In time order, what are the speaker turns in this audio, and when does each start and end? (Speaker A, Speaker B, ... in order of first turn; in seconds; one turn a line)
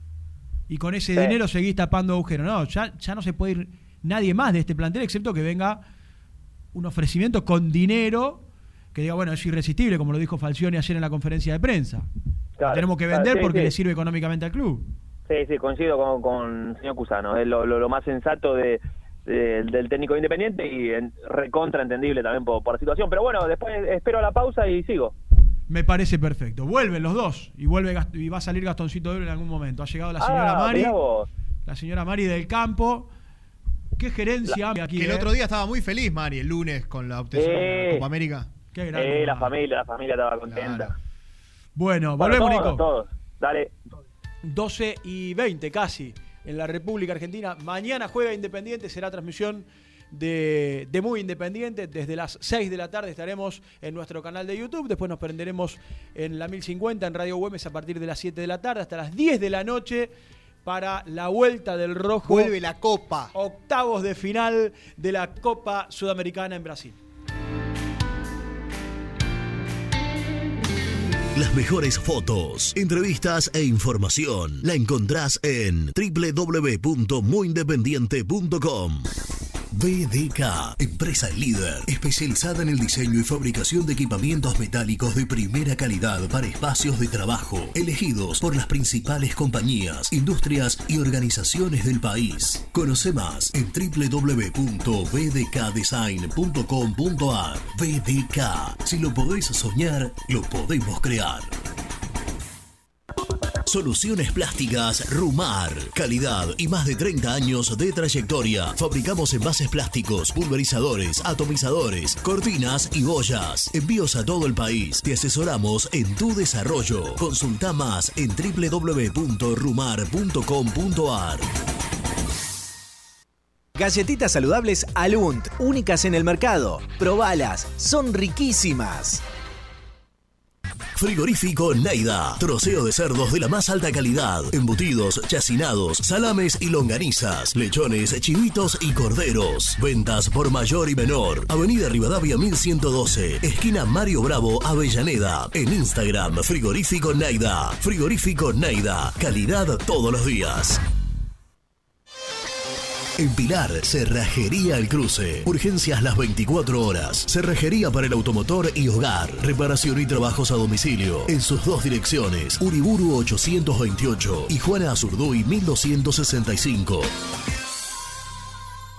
Speaker A: 0.7-5.8
Speaker A: 6.7-8.4
Speaker A: 8.9-12.1
Speaker B: 12.6-13.7
Speaker A: 12.7-14.9
Speaker B: 15.3-25.1
Speaker A: 25.7-31.0
Speaker B: 30.2-31.3
Speaker A: 31.6-33.1
Speaker A: 34.0-35.3
Speaker C: 34.9-38.5
Speaker B: 37.3-38.0
Speaker A: 38.7-39.5
Speaker B: 38.9-40.9
Speaker C: 40.5-40.9
Speaker A: 41.8-42.9
Speaker B: 42.2-43.7
Speaker A: 44.4-60.1
Speaker A: 60.6-62.5
Speaker C: 62.2-63.3
Speaker A: 63.3-67.0
Speaker D: 71.3-79.1
Speaker D: 79.7-101.5
Speaker D: 103.7-121.5
Speaker E: 123.8-129.2
Speaker D: 130.9-150.8
Speaker D: 153.2-167.1